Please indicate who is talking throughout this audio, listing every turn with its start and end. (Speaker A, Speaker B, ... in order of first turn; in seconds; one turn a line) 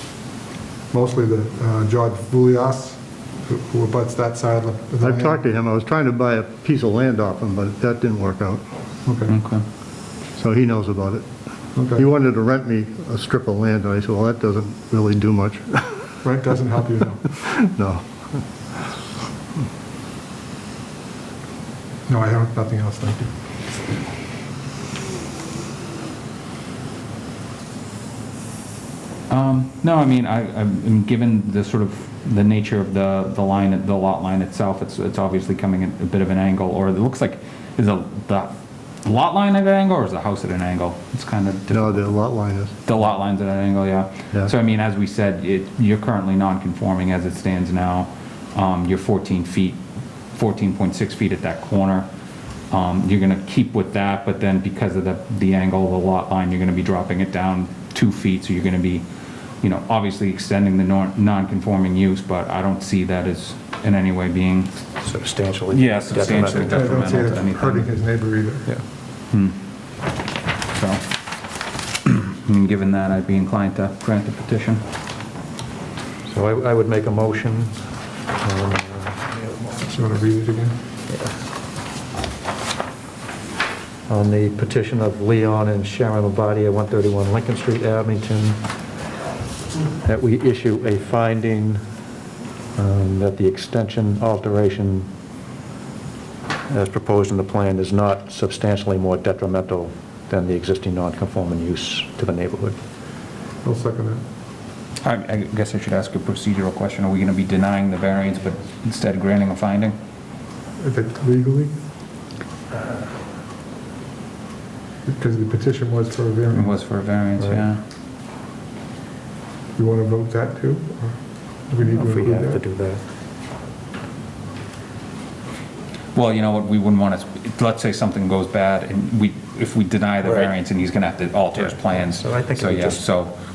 Speaker A: 0.9-5.4
Speaker B: 5.0-8.6
Speaker A: 9.1-9.3
Speaker C: 9.3-9.7
Speaker B: 10.4-11.3
Speaker A: 11.8-12.1
Speaker B: 11.9-16.1
Speaker A: 16.2-17.4
Speaker B: 17.5-18.4
Speaker A: 22.1-23.3
Speaker C: 29.3-42.2
Speaker B: 41.7-42.7
Speaker C: 42.8-49.8
Speaker C: 50.3-52.1
Speaker C: 52.7-59.0
Speaker C: 59.6-64.8
Speaker D: 65.0-66.9
Speaker C: 65.7-67.9
Speaker A: 66.7-68.7
Speaker C: 69.3-69.6
Speaker C: 70.7-71.0
Speaker C: 72.0-74.8
Speaker D: 76.3-77.8
Speaker D: 78.4-80.0
Speaker A: 79.9-80.8
Speaker D: 81.1-81.3
Speaker D: 84.1-88.6
Speaker D: 90.0-91.8
Speaker D: 92.8-95.1
Speaker D: 96.7-102.8
Speaker A: 103.6-104.2
Speaker C: 105.0-110.0
Speaker A: 110.8-111.7
Speaker A: 115.1-117.7
Speaker C: 116.5-117.8
Speaker A: 119.8-122.6
Speaker D: 121.8-123.0
Speaker C: 126.1-133.3
Speaker D: 130.2-130.6
Speaker D: 131.6-133.0